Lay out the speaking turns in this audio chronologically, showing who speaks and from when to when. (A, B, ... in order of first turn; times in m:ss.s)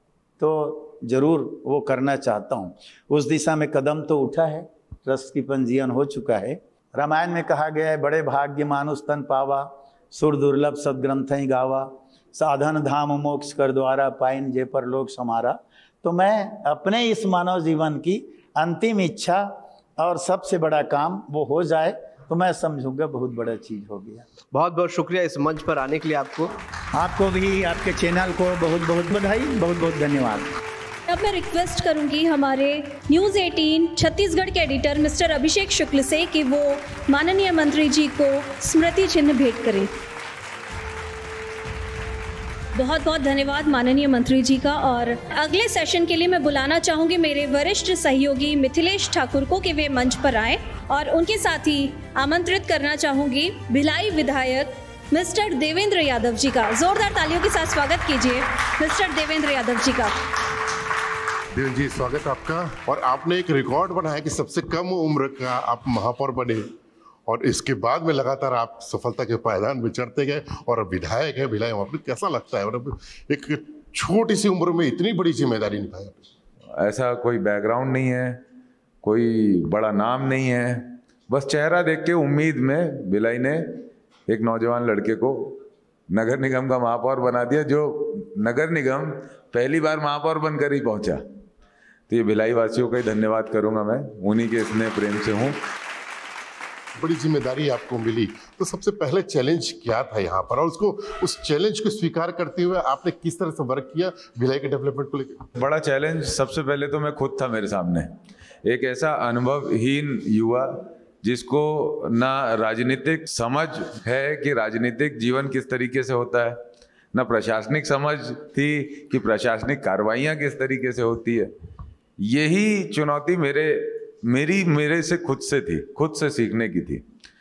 0:00.4-0:24.2 A
0:24.5-0:26.5 B
0:26.9-0:30.5 A
0:31.1-0:39.9 C
0:42.7-1:00.2 C
1:01.5-1:06.7 D
1:07.2-1:16.2 D
1:16.7-1:18.4 E
1:19.0-1:31.2 E
1:32.1-1:35.6 E
1:37.0-1:45.4 D
1:45.6-1:48.1 E
1:48.6-1:56.6 E
1:57.1-2:01.5 E
2:02.2-2:07.0 E